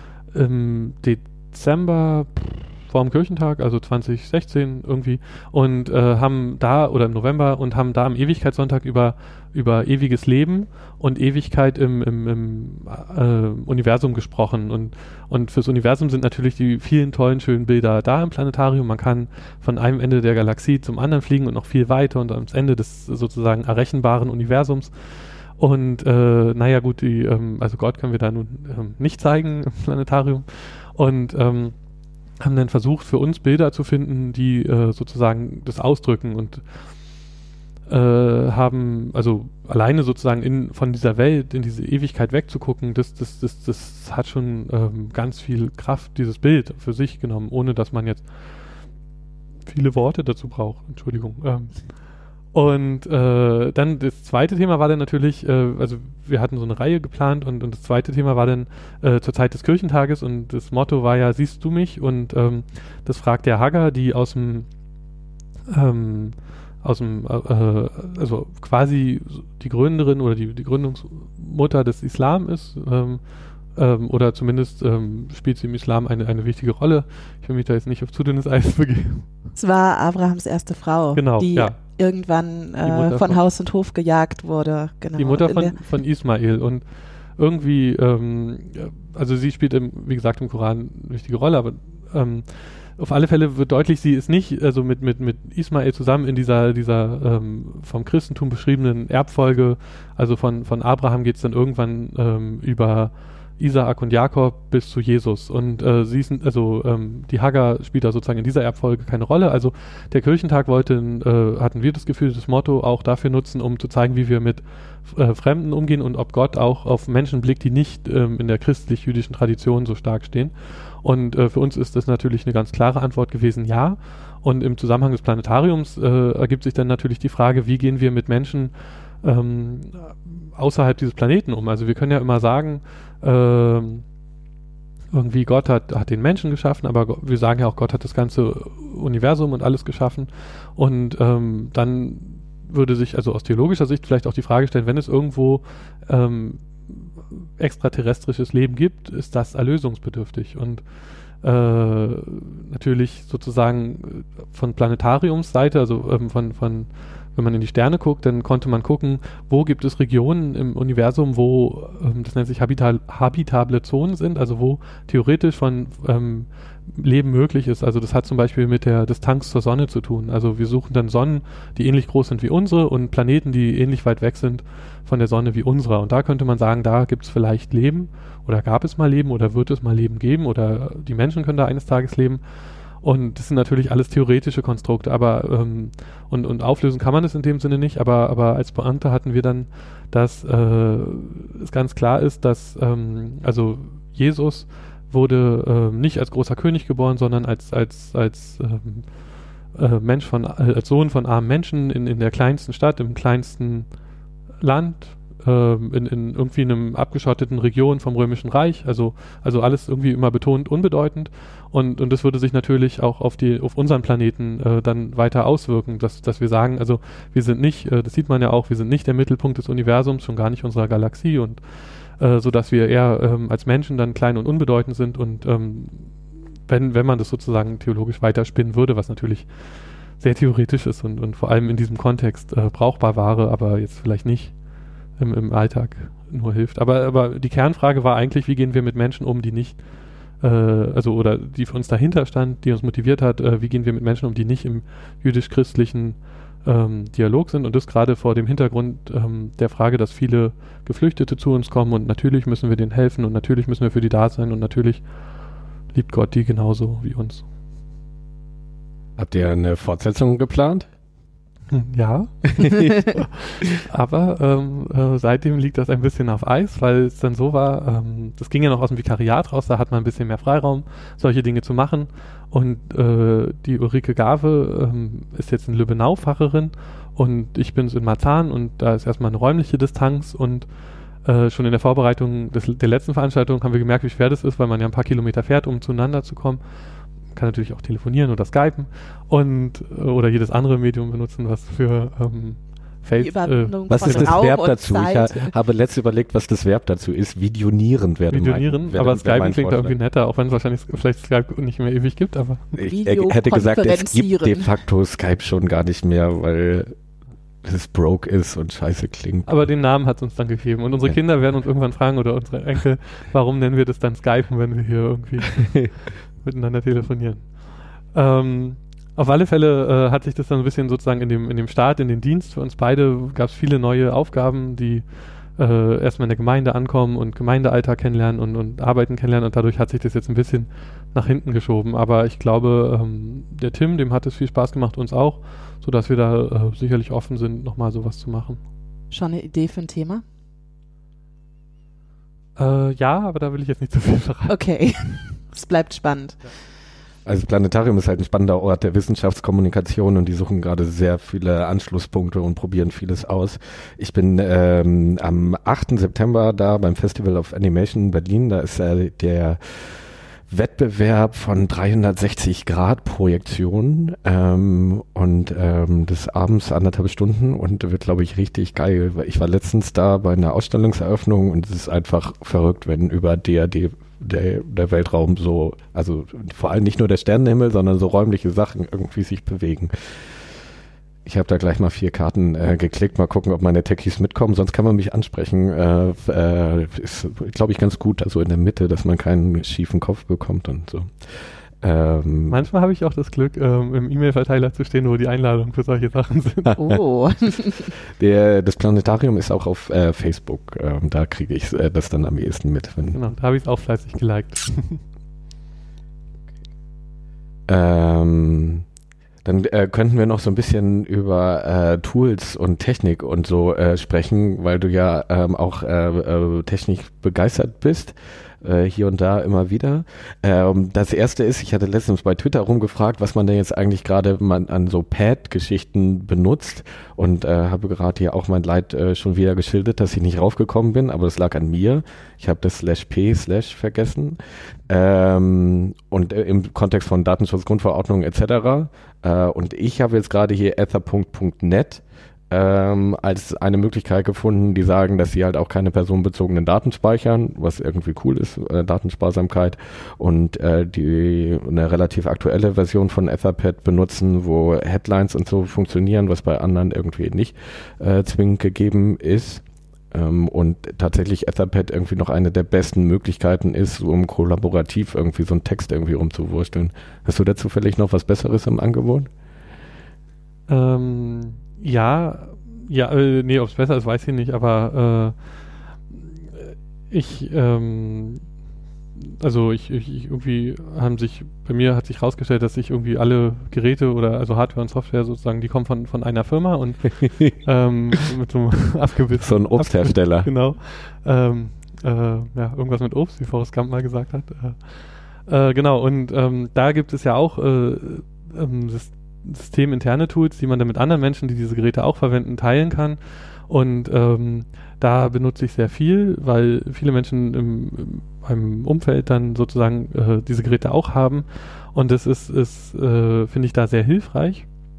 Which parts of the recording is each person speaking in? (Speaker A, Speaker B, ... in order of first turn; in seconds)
Speaker A: 0.3-31.7, 32.4-36.8, 37.9-48.4, 49.6-52.0, 52.5-64.7, 65.7-73.2, 73.8-79.3, 81.1-81.8, 82.8-83.4, 85.2-86.8, 87.4-134.0, 135.1-150.8, 151.4-182.4, 183.0-199.1, 199.7-203.9, 204.6-226.1, 226.7-229.5, 230.2-234.5, 235.2-239.8, 240.4-255.0, 255.9-257.4, 261.7-280.7, 281.2-286.6, 287.3-294.3, 298.3-302.7, 309.5-315.8, 316.4-317.5, 318.1-325.0, 325.6-338.6, 342.6-344.5, 392.5-396.8, 403.1-405.0, 470.7-475.3, 476.1-478.4, 479.2-514.6
Speaker B: 79.5-85.8, 293.2-295.5, 302.9-304.7, 339.1-340.2, 344.5-346.4, 396.8-397.9
Speaker C: 259.2-260.9, 262.5-263.1, 293.9-299.9, 302.8-306.9, 307.6-309.6, 347.2-360.0, 360.5-379.9, 381.2-392.6, 398.0-403.2, 407.7-408.8, 409.4-469.3, 489.4-490.5